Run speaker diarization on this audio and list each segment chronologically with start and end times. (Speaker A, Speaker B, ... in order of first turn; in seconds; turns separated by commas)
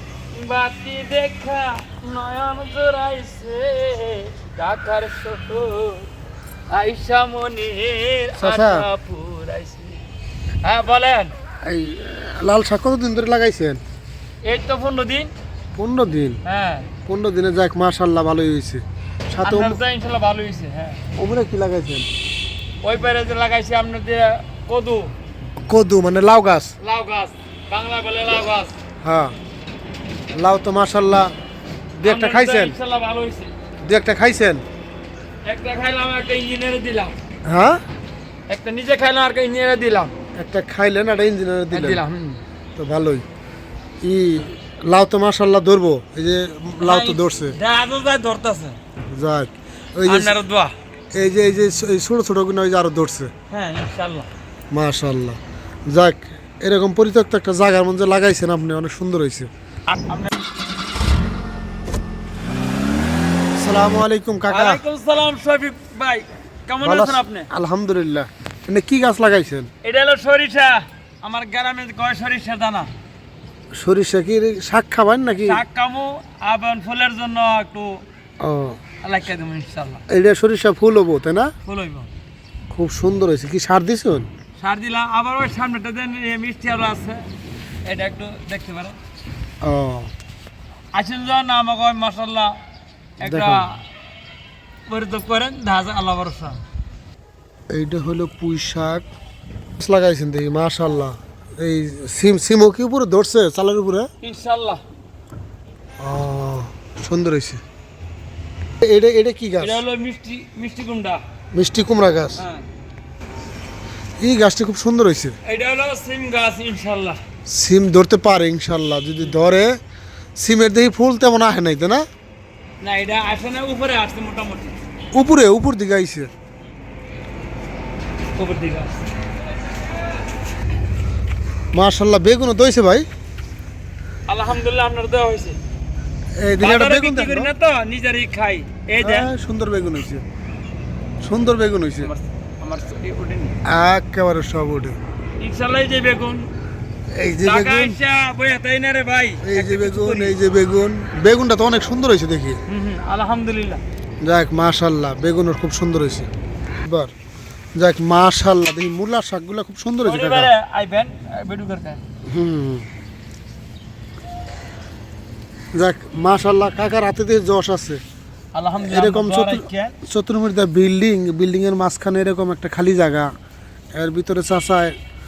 Speaker A: 0.3-6.1, Speaker A: 6.7-10.0, Speaker B: 8.4-8.9, Speaker A: 10.6-11.3, Speaker B: 11.6-13.8, Speaker A: 14.4-15.3, Speaker B: 15.8-16.4, Speaker A: 16.4-16.9, Speaker B: 17.1-19.8, Speaker A: 19.4-21.0, Speaker B: 21.2-22.1, Speaker A: 22.8-25.1, Speaker B: 25.7-26.7, Speaker A: 26.8-28.7, Speaker B: 29.0-29.4, Speaker B: 30.3-31.3, Speaker B: 32.0-32.8, Speaker A: 32.0-33.5, Speaker B: 33.8-34.6, Speaker A: 35.5-37.2, Speaker B: 37.5-37.8, Speaker A: 38.5-40.1, Speaker B: 40.4-42.0, Speaker A: 41.7-42.4, Speaker B: 42.8-43.2, Speaker B: 44.0-47.6, Speaker A: 46.8-48.8, Speaker B: 49.1-50.4, Speaker A: 50.1-50.7, Speaker B: 51.1-53.3, Speaker A: 53.5-54.3, Speaker B: 54.7-59.5, Speaker A: 59.9-60.3, Speaker B: 63.6-64.8, Speaker A: 64.5-67.5, Speaker B: 66.8-69.7, Speaker A: 69.8-72.9, Speaker B: 73.8-75.6, Speaker A: 75.5-78.0, Speaker B: 78.4-78.8, Speaker A: 79.0-80.0, Speaker B: 80.1-81.5, Speaker A: 81.6-82.1, Speaker B: 82.7-84.3, Speaker A: 84.6-87.2, Speaker A: 87.9-89.0, Speaker B: 89.6-90.1, Speaker A: 90.9-92.5, Speaker A: 93.2-93.8, Speaker B: 93.2-93.7, Speaker A: 94.9-96.6, Speaker B: 97.7-99.1, Speaker B: 99.8-104.1, Speaker A: 104.2-104.8, Speaker B: 106.0-107.6, Speaker B: 108.8-109.8, Speaker A: 109.6-111.2, Speaker B: 111.5-112.4, Speaker A: 112.4-112.7, Speaker B: 114.2-115.4, Speaker A: 115.5-117.2, Speaker B: 117.5-119.8, Speaker B: 120.4-122.0, Speaker A: 122.8-124.8, Speaker B: 125.1-126.3, Speaker A: 128.3-129.1, Speaker B: 131.7-133.1, Speaker A: 134.3-135.6, Speaker B: 136.4-137.5, Speaker A: 136.6-139.3, Speaker B: 139.0-140.2, Speaker B: 141.2-142.1, Speaker A: 142.0-143.6, Speaker B: 143.7-145.0, Speaker A: 145.4-146.5, Speaker B: 147.1-148.0, Speaker A: 147.4-150.4, Speaker B: 149.4-152.6, Speaker A: 152.7-153.8, Speaker B: 154.2-156.3, Speaker B: 156.9-157.1, Speaker B: 157.8-160.5, Speaker A: 160.0-162.0, Speaker B: 162.3-162.9, Speaker B: 165.8-168.0, Speaker A: 168.5-170.0, Speaker B: 168.8-173.3, Speaker B: 173.9-174.9